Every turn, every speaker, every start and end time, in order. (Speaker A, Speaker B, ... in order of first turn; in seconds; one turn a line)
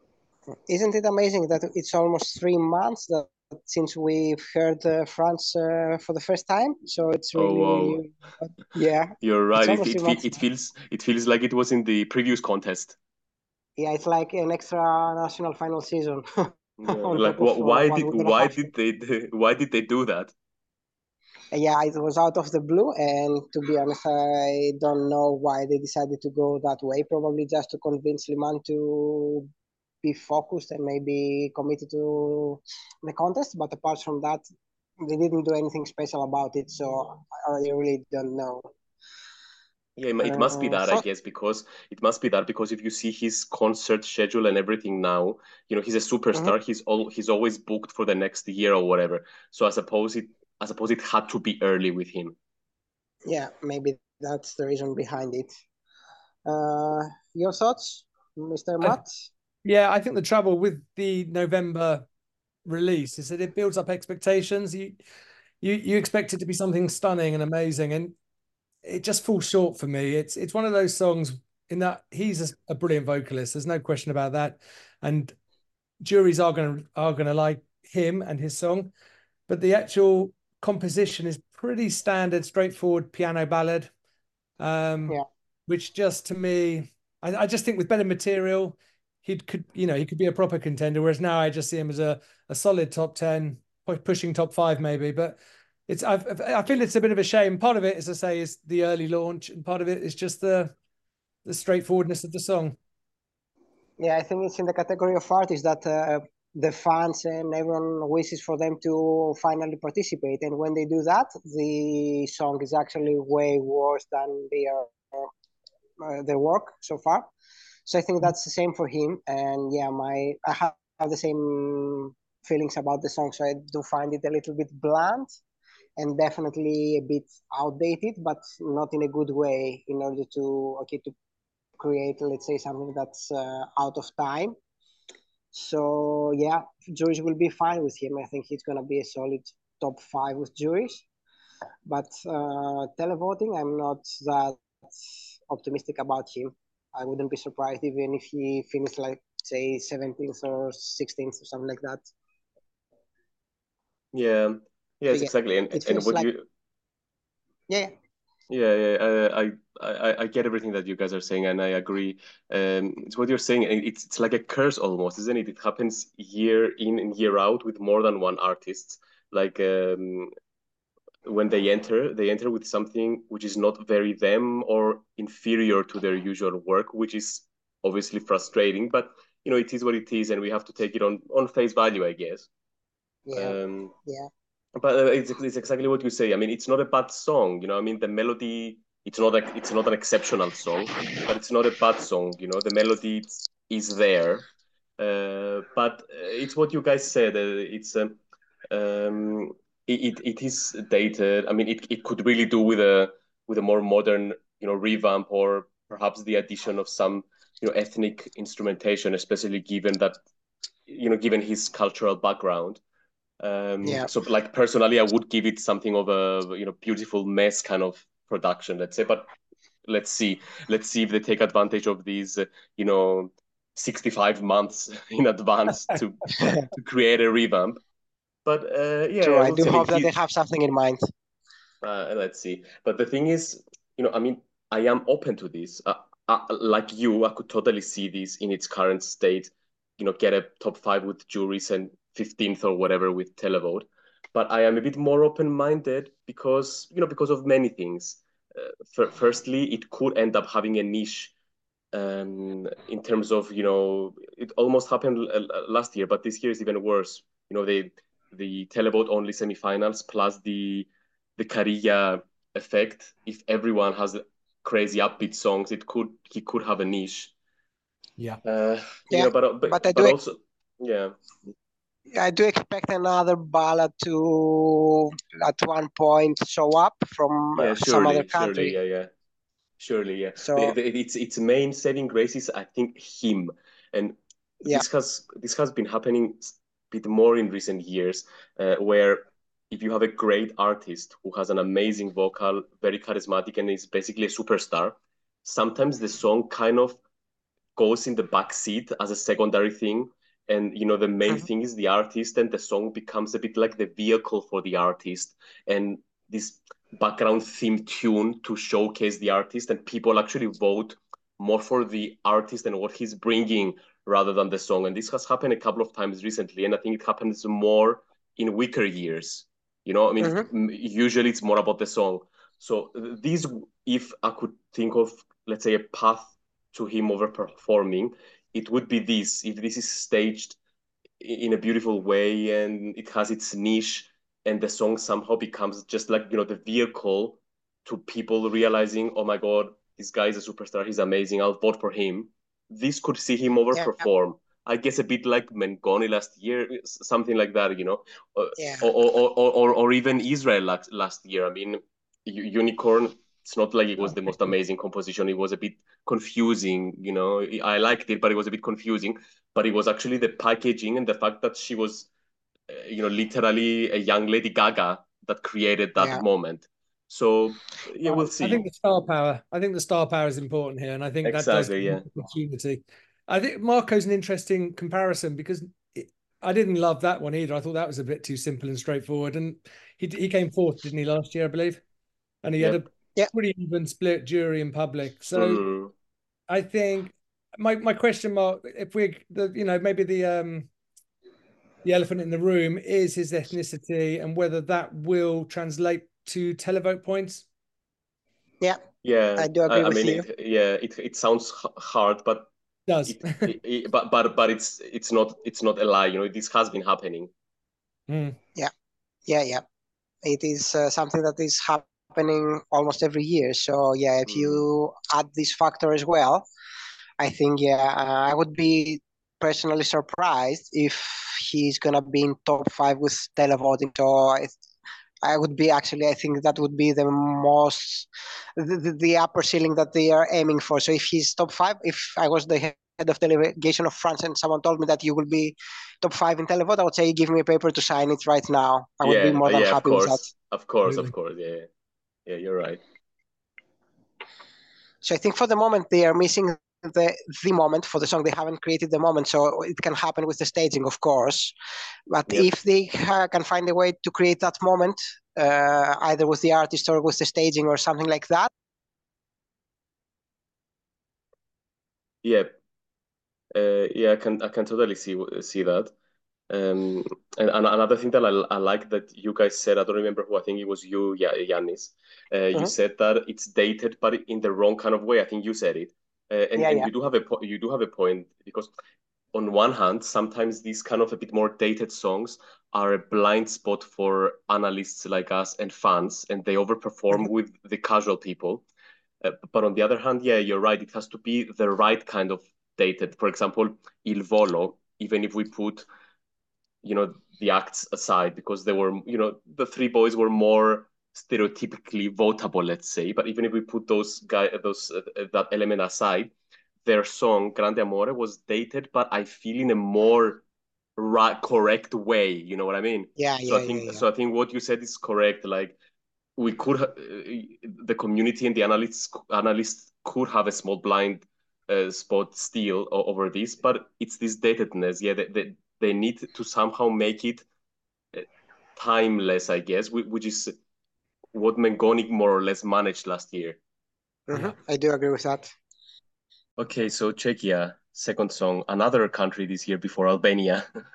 Speaker A: 0.5-10.3
Speaker B: 7.3-8.0
Speaker B: 9.2-12.9
Speaker A: 13.8-18.7
Speaker B: 16.8-20.3
Speaker A: 21.5-29.5
Speaker A: 30.0-34.4
Speaker A: 35.0-38.7
Speaker B: 40.0-52.4
Speaker A: 40.2-41.0
Speaker A: 53.3-55.5
Speaker A: 56.5-59.3
Speaker C: 59.6-62.0
Speaker C: 62.7-65.0
Speaker C: 65.6-68.1
Speaker C: 68.8-75.3
Speaker C: 76.0-78.9
Speaker C: 79.5-83.9
Speaker C: 84.6-100.7
Speaker C: 101.4-102.8
Speaker A: 104.0-115.3
Speaker A: 116.0-117.3
Speaker A: 117.8-125.3
Speaker A: 126.0-131.1
Speaker A: 131.8-134.6
Speaker A: 135.5-141.1
Speaker A: 141.8-152.1
Speaker B: 154.1-156.4
Speaker A: 155.1-156.3
Speaker B: 158.5-170.3
Speaker B: 171.2-182.5
Speaker A: 183.3-184.3
Speaker B: 183.3-183.9
Speaker B: 184.8-194.4
Speaker B: 195.0-198.2
Speaker B: 198.7-210.2
Speaker B: 210.9-212.8
Speaker B: 213.4-219.3
Speaker A: 213.8-214.1
Speaker B: 219.8-227.8
Speaker A: 226.4-226.6
Speaker B: 228.4-230.1
Speaker A: 229.2-231.1
Speaker B: 231.8-251.3
Speaker B: 251.9-267.3
Speaker B: 268.4-271.2
Speaker A: 269.1-270.1
Speaker A: 272.1-278.8
Speaker B: 277.6-279.1
Speaker B: 279.8-297.0
Speaker A: 280.4-280.8
Speaker B: 297.8-330.6
Speaker A: 320.2-320.5
Speaker B: 331.2-362.1
Speaker A: 348.6-348.9
Speaker B: 362.7-368.6
Speaker A: 366.0-366.2
Speaker C: 368.3-381.8
Speaker B: 371.2-372.1
Speaker C: 382.4-385.6
Speaker B: 385.3-385.9
Speaker C: 386.5-390.7
Speaker C: 391.8-397.4
Speaker B: 399.0-402.5
Speaker A: 399.4-400.3
Speaker C: 402.9-403.5
Speaker B: 403.1-407.3
Speaker C: 408.1-408.4
Speaker A: 409.3-409.6
Speaker A: 410.2-416.4
Speaker B: 414.2-414.6
Speaker A: 417.2-424.6
Speaker A: 425.2-440.3
Speaker B: 439.0-441.7
Speaker B: 442.3-442.8
Speaker A: 445.0-451.5
Speaker A: 452.1-458.5
Speaker B: 462.2-462.5
Speaker B: 463.6-465.9
Speaker B: 466.5-478.7
Speaker A: 476.6-476.9
Speaker B: 479.3-488.6
Speaker B: 489.2-495.9
Speaker B: 496.8-506.3
Speaker B: 506.9-510.4
Speaker B: 511.0-515.8
Speaker A: 513.2-514.0
Speaker B: 516.4-527.5
Speaker B: 528.1-530.5
Speaker B: 531.3-533.6
Speaker A: 534.3-535.5
Speaker B: 536.6-540.6